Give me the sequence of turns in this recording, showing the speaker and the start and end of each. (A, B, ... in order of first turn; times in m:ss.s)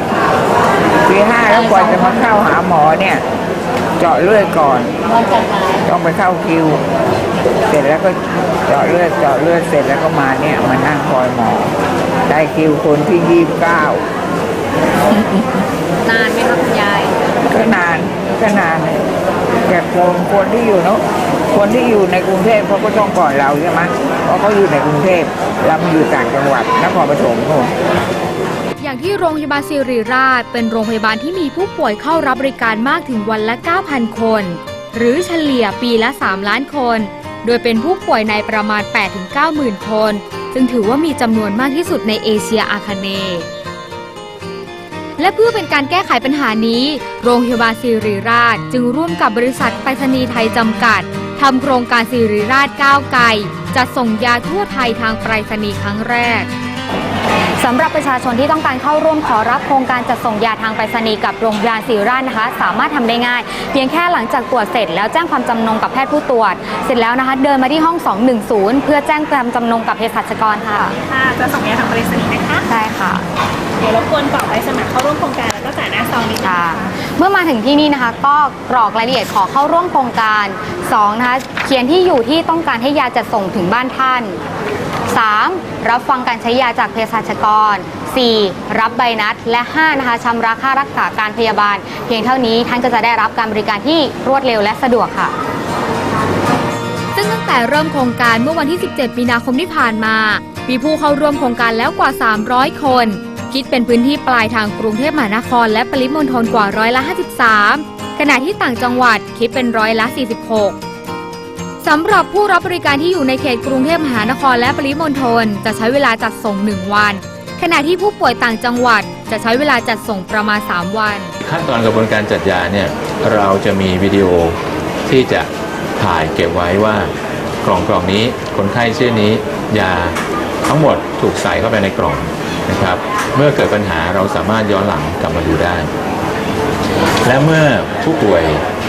0:01.1-0:03.2 A
0:04.0-0:05.0 A
0:05.8-0:06.8 A
0:07.7-0:11.8 A
0:12.3-0:14.0 A
0:16.1-0:17.0 B
0:17.5-0:19.0 A
0:19.7-0:27.7 A
0:28.8-0:43.5 C
0:45.2-0:56.5 C
0:57.6-1:10.9 B
1:11.0-1:12.7 D
1:12.7-1:13.3 B
1:13.8-1:16.9 D
1:16.4-1:24.4 B
1:25.1-1:35.3 B
1:37.1-1:50.8 C
1:51.8-2:01.3 C
2:01.4-2:15.9 E
2:17.2-2:18.6 E